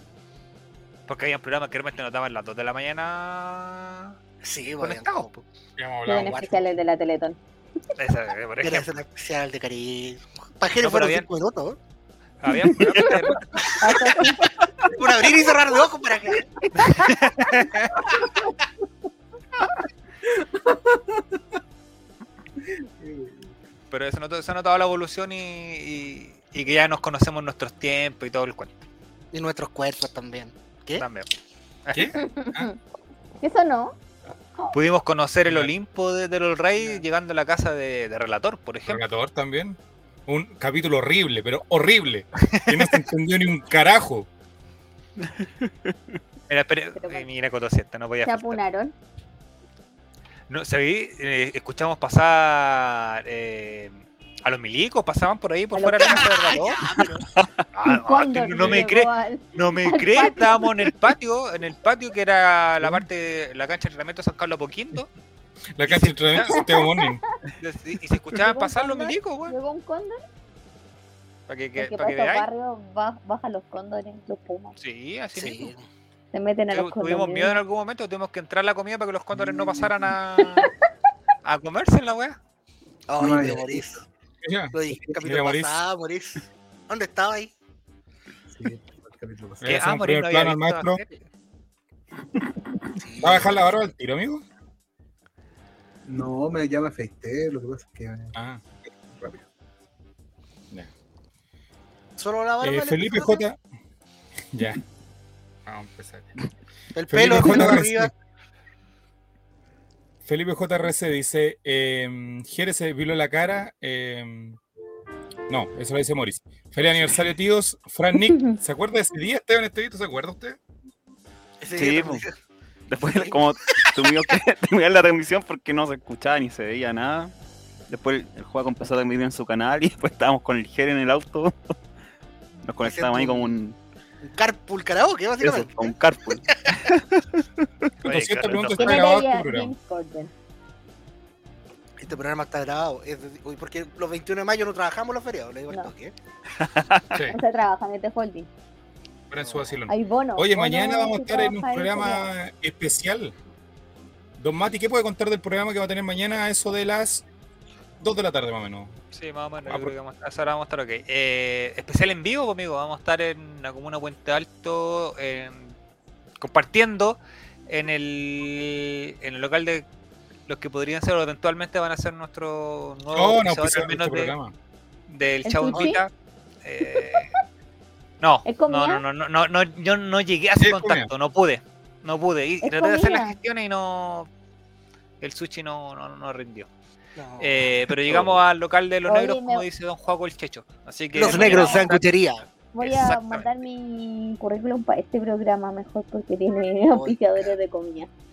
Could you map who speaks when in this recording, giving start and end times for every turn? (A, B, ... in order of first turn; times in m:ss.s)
0:01.1-0:04.2 A
0:04.4-0:05.4 B
0:04.8-0:05.3 A
0:05.8-0:06.4 C
0:06.0-0:07.4 D
0:06.2-0:06.7 B
0:08.0-0:08.9 A
0:08.6-0:11.8 B
0:10.8-0:11.3 A
0:12.4-0:13.7 A
0:13.8-0:14.5 D
0:14.9-0:16.5 B
0:16.8-0:18.0 A
0:20.5-0:21.4 E
0:23.0-0:23.5 E
0:23.9-0:28.7 A
0:29.3-0:31.0 B
0:31.0-0:31.3 A
0:31.9-0:32.2 A
0:31.9-0:32.7 C
0:32.2-0:32.8 D
0:33.4-0:34.0 D
0:34.7-0:39.0 A
0:35.5-0:35.7 C
0:38.9-0:44.3 C
0:42.4-0:43.0 A
0:45.3-0:46.2 F
0:46.5-0:48.6 A
0:47.0-0:47.3 D
0:48.2-0:48.9 D
0:50.5-0:56.8 A
0:55.8-0:56.2 D
0:56.0-0:57.3 B
0:57.7-1:05.1 A
0:57.9-1:00.7 D
0:58.6-0:58.9 C
1:05.8-1:07.2 C
1:05.8-1:06.6 A
1:06.5-1:07.1 D
1:07.6-1:09.6 A
1:08.4-1:10.2 D
1:11.5-1:12.5 A
1:11.8-1:14.8 D
1:14.8-1:15.7 A
1:15.4-1:15.8 B
1:16.3-1:17.6 D
1:16.7-1:20.7 A
1:19.3-1:20.1 E
1:21.4-1:22.4 A
1:23.1-1:24.0 B
1:23.2-1:24.0 E
1:24.4-1:25.8 C
1:24.7-1:27.5 B
1:28.5-1:29.6 E
1:29.6-1:31.0 C
1:29.7-1:31.2 A
1:33.0-1:33.7 B
1:33.2-1:34.4 C
1:36.0-1:38.3 E
1:38.4-1:38.6 C
1:39.2-1:39.4 E
1:42.2-1:43.4 B
1:42.6-1:43.6 C
1:44.5-1:44.8 C
1:45.7-1:46.4 C
1:47.0-1:48.1 B
1:47.1-1:48.1 C
1:50.2-1:54.6 C
1:55.5-2:00.6 C
1:58.3-1:58.6 D
2:01.6-2:02.3 B
2:01.7-2:02.2 F
2:02.9-2:07.3 F
2:03.0-2:04.4 B
2:07.9-2:11.6 F
2:12.7-2:13.8 F
2:12.8-2:13.6 B
2:14.2-2:16.9 B
2:15.4-2:17.4 F
2:18.0-2:19.7 C
2:18.0-2:19.0 A
2:18.8-2:20.3 D
2:22.0-2:26.2 B
2:26.6-2:27.0 F
2:27.3-2:28.5 D
2:29.3-2:33.4 C
2:29.4-2:29.8 B
2:29.9-2:32.3 D
2:34.4-2:37.2 C
2:38.0-2:39.0 C
2:39.1-2:45.8 A
2:39.6-2:39.9 C
2:46.4-2:49.9 A
2:50.5-2:54.3 A
2:53.1-2:54.5 C
2:55.1-2:56.1 A
2:55.4-2:56.0 D
2:56.6-2:57.3 A
2:58.2-3:04.3 A
2:58.4-2:59.0 D
3:00.6-3:01.1 C
3:02.6-3:03.4 D
3:05.2-3:06.7 A
3:07.2-3:07.7 B
3:07.4-3:12.0 A
3:09.1-3:09.7 D
3:11.1-3:12.5 B
3:11.3-3:11.9 D
3:12.7-3:18.1 D
3:12.8-3:13.5 A
3:16.9-3:17.6 B